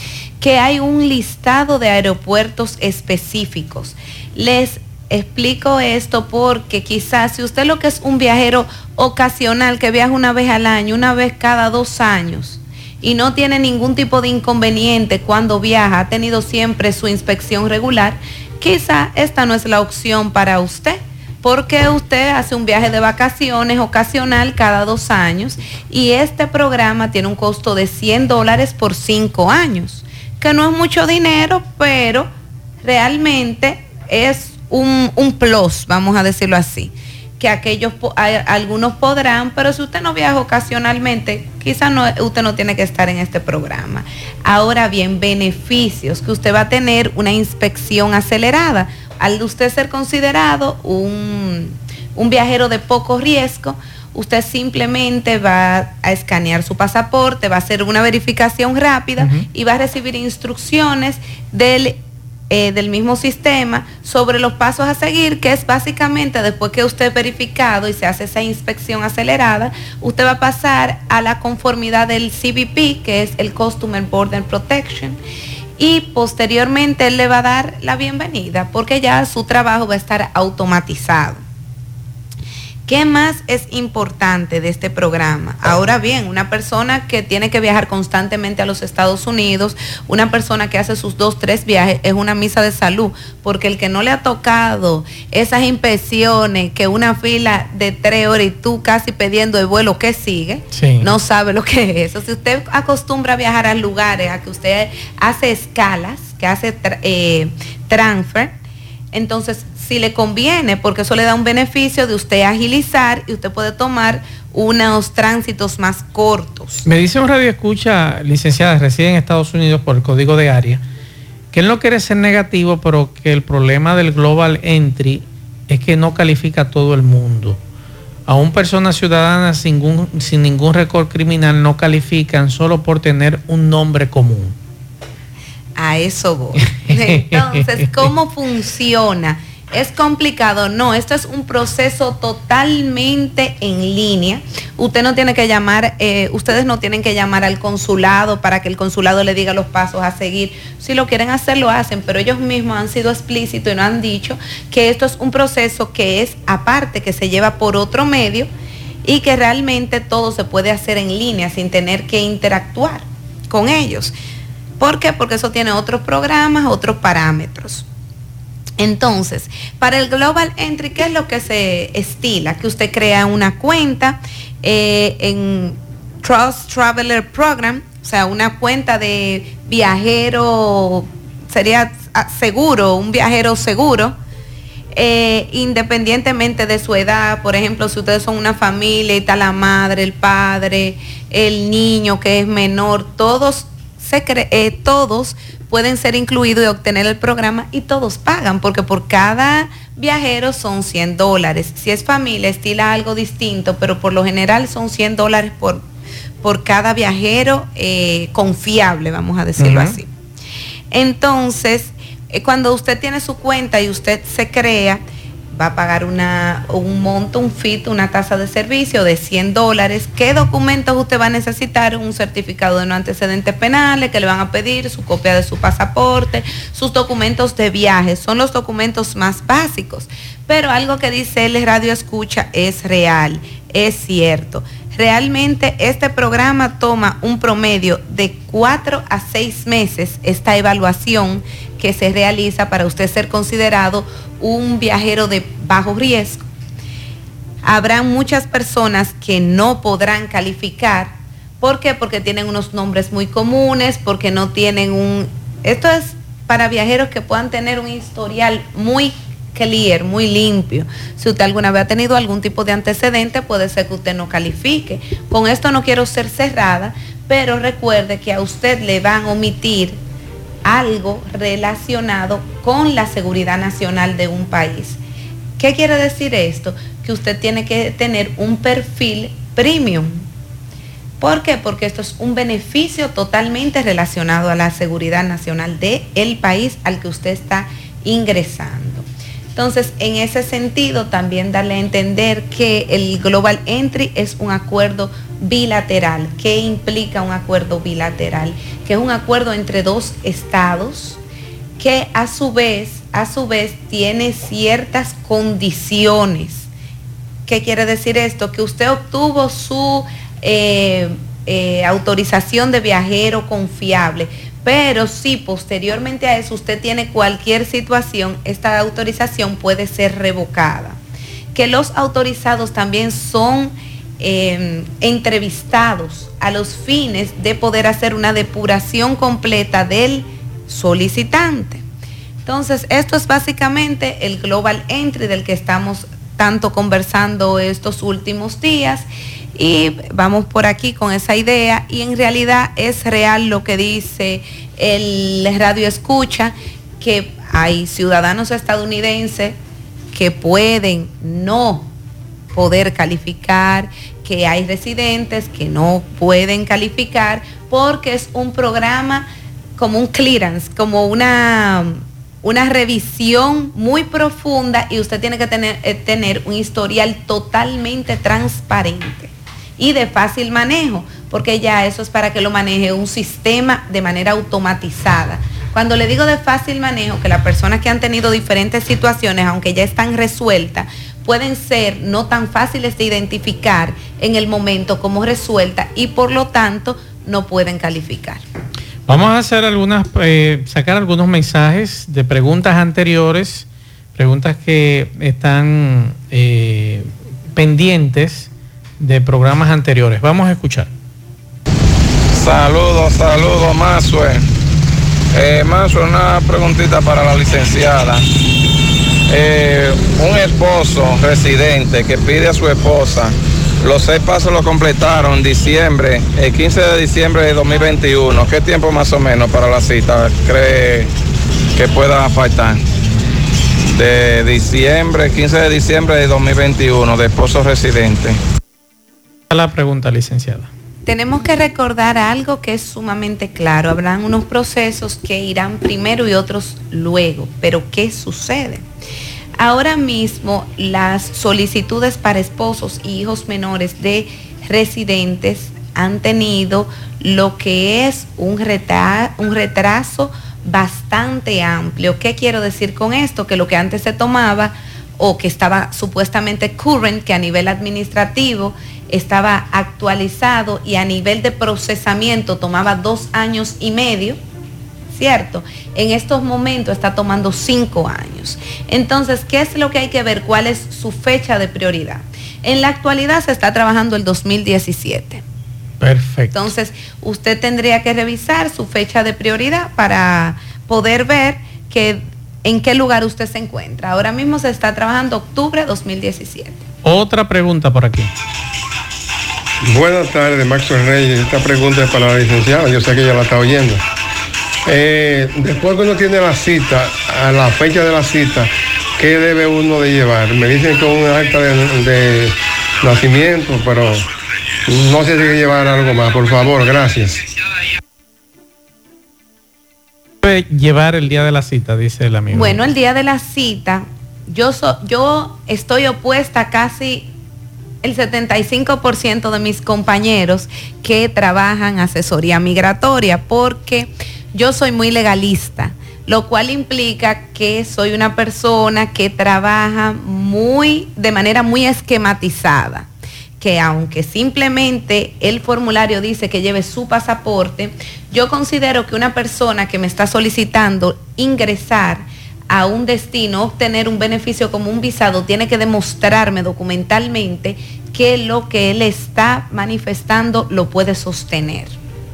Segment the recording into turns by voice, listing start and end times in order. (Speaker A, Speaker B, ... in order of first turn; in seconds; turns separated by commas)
Speaker A: 0.4-32.3, Speaker A: 32.8-62.0, Speaker B: 59.2-59.5, Speaker A: 62.5-75.2, Speaker A: 75.8-81.4, Speaker A: 82.9-108.5, Speaker B: 100.7-101.1, Speaker A: 109.1-116.9, Speaker B: 116.8-120.8, Speaker B: 121.5-127.6, Speaker B: 128.3-134.6, Speaker A: 135.8-158.5, Speaker B: 136.9-137.6, Speaker A: 159.1-164.1, Speaker A: 164.8-167.9, Speaker A: 168.8-184.2, Speaker A: 184.9-205.8, Speaker A: 206.4-210.1, Speaker B: 209.6-210.0, Speaker A: 210.9-215.0, Speaker A: 215.5-246.4, Speaker A: 247.6-270.0, Speaker A: 270.6-275.0, Speaker A: 275.6-280.2, Speaker A: 281.2-301.2, Speaker A: 301.8-306.7, Speaker A: 307.5-321.0, Speaker A: 321.5-331.8, Speaker A: 332.5-349.6, Speaker A: 350.1-351.9, Speaker A: 352.5-388.4, Speaker B: 389.1-400.9, Speaker C: 402.3-404.4, Speaker C: 405.3-408.2, Speaker C: 409.3-421.1, Speaker C: 421.8-422.8, Speaker C: 423.9-428.4, Speaker B: 429.5-430.7, Speaker A: 431.1-438.9, Speaker A: 439.6-464.4, Speaker A: 465.1-475.4, Speaker B: 476.0-476.6, Speaker A: 476.5-486.8, Speaker B: 487.0-488.3, Speaker D: 489.8-494.0, Speaker D: 494.9-504.3, Speaker D: 504.9-507.5, Speaker B: 510.4-512.8, Speaker A: 512.5-517.3, Speaker A: 518.0-533.1, Speaker A: 533.6-552.0